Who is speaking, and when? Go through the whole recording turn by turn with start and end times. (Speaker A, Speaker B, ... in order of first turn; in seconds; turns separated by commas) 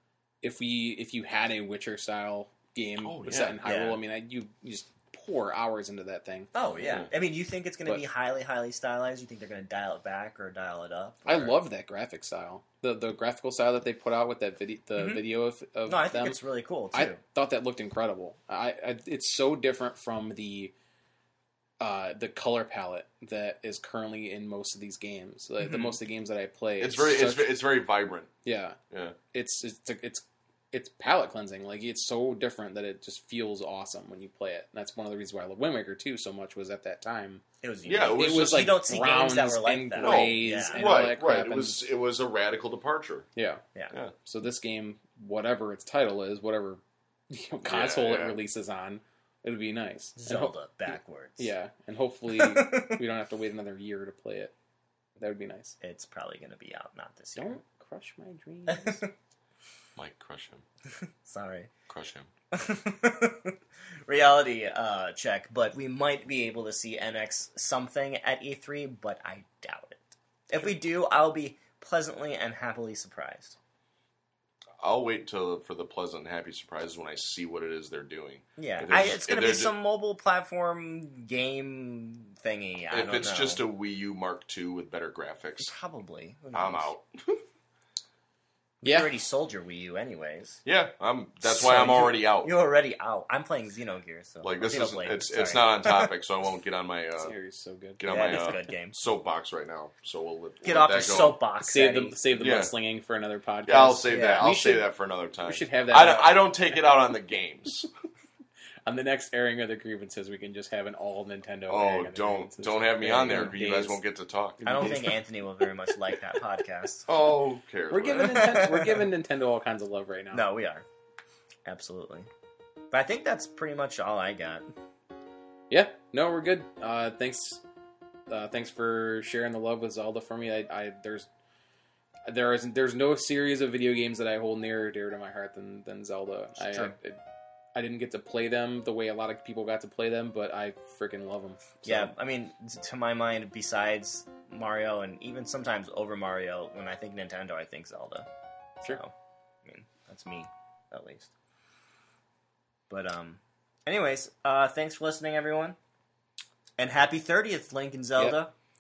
Speaker A: 0.4-6.5, Speaker B: 3.0-3.6, Speaker C: 3.6-4.0, Speaker C: 6.5-11.6, Speaker B: 6.8-7.1, Speaker A: 11.3-16.4, Speaker C: 15.9-17.2, Speaker A: 16.9-20.7, Speaker A: 21.8-27.6, Speaker C: 25.6-26.0, Speaker B: 26.8-28.3, Speaker A: 28.4-28.8, Speaker B: 28.9-29.2, Speaker A: 29.3-37.4, Speaker C: 37.6-40.9, Speaker B: 37.9-38.8, Speaker A: 38.1-41.8, Speaker B: 40.0-43.3, Speaker A: 43.4-43.6, Speaker A: 44.2-50.5, Speaker B: 47.6-48.4, Speaker C: 50.2-51.5, Speaker A: 51.4-54.5, Speaker C: 52.3-53.0, Speaker A: 55.2-55.8, Speaker C: 55.8-57.6, Speaker A: 57.4-59.0, Speaker C: 58.7-59.1, Speaker B: 60.0-60.6, Speaker C: 60.9-61.7, Speaker B: 61.9-62.3, Speaker C: 62.5-73.6, Speaker B: 74.8-79.7, Speaker C: 78.6-83.6, Speaker B: 82.9-85.7, Speaker C: 85.6-86.9, Speaker B: 86.5-87.4, Speaker C: 88.8-90.6, Speaker A: 88.8-89.1, Speaker B: 90.7-92.5, Speaker C: 91.5-96.1, Speaker B: 94.4-97.3, Speaker A: 97.2-98.5, Speaker B: 98.0-101.4, Speaker C: 98.1-99.0, Speaker C: 100.6-102.2, Speaker A: 101.6-104.8, Speaker B: 102.3-102.7, Speaker B: 103.7-107.9, Speaker C: 104.1-104.5, Speaker A: 105.5-106.5, Speaker A: 108.9-114.0, Speaker B: 111.7-115.1, Speaker A: 114.6-115.2, Speaker C: 114.7-117.1, Speaker B: 117.1-119.0, Speaker A: 117.9-120.5, Speaker C: 118.2-119.0, Speaker C: 120.3-120.9, Speaker C: 121.7-122.3, Speaker C: 122.9-124.7, Speaker A: 125.7-127.6, Speaker A: 128.3-131.3, Speaker A: 132.3-137.2, Speaker C: 136.6-136.9, Speaker A: 137.8-142.1, Speaker C: 141.8-148.3, Speaker C: 148.8-149.1, Speaker C: 149.7-151.3, Speaker C: 152.9-155.8, Speaker C: 156.8-158.5